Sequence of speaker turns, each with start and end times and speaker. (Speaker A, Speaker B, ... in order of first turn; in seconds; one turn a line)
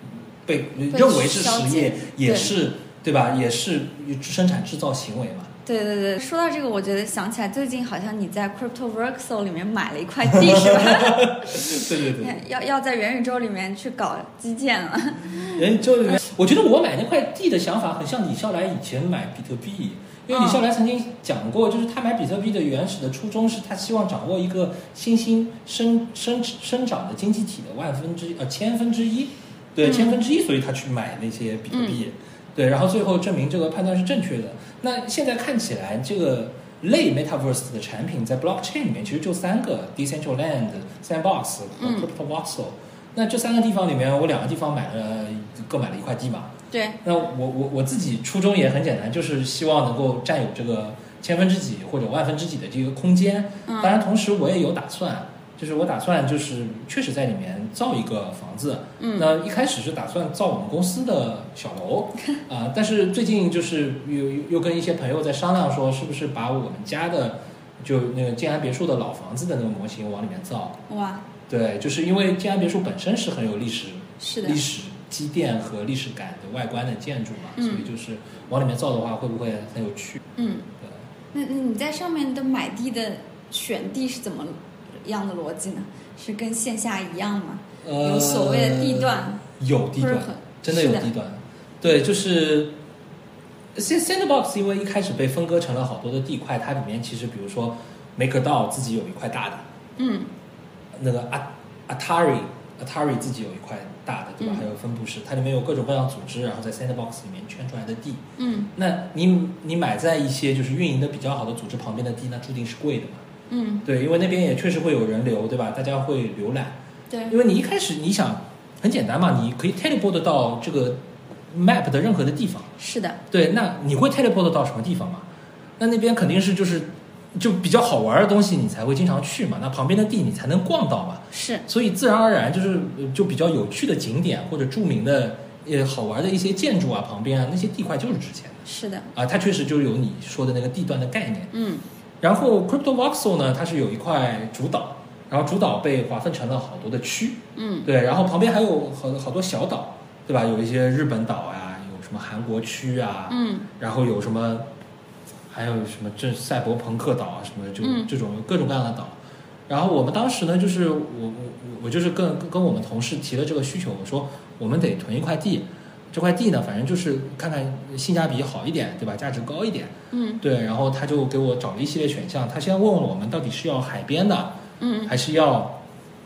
Speaker A: 0.5-5.5
Speaker B: 0.9-2.5
Speaker B: 5.7-15.6
Speaker A: 10.3-12.4
Speaker A: 15.4-46.5
Speaker B: 20.3-20.6
Speaker B: 29.8-30.2
Speaker B: 31.7-32.0
Speaker B: 41.8-42.1
Speaker B: 46.7-47.0
Speaker A: 47.0-70.8
Speaker B: 53.7-54.0
Speaker B: 59.0-59.2
Speaker B: 70.9-71.3
Speaker A: 71.5-80.2
Speaker B: 74.2-74.6
Speaker B: 77.5-77.9
Speaker B: 80.4-80.7
Speaker B: 81.3-89.4
Speaker A: 87.8-92.7
Speaker B: 90.0-91.1
Speaker A: 93.7-99.6
Speaker B: 100.0-100.3
Speaker A: 100.9-108.2
Speaker B: 104.4-104.7
Speaker B: 108.4-108.7
Speaker A: 108.7-113.2
Speaker B: 113.5-113.8
Speaker A: 113.8-116.8
Speaker A: 117.3-121.0
Speaker A: 121.5-122.7
Speaker B: 122.8-123.2
Speaker A: 123.3-125.3
Speaker A: 125.8-141.5
Speaker B: 131.3-131.6
Speaker B: 138.7-139.1
Speaker B: 141.5-141.8
Speaker A: 142.2-154.7
Speaker B: 147.6-147.9
Speaker B: 153.3-153.7
Speaker A: 155.5-159.2
Speaker B: 157.8-158.1
Speaker A: 159.7-175.8
Speaker B: 170.1-170.4
Speaker B: 174.8-175.1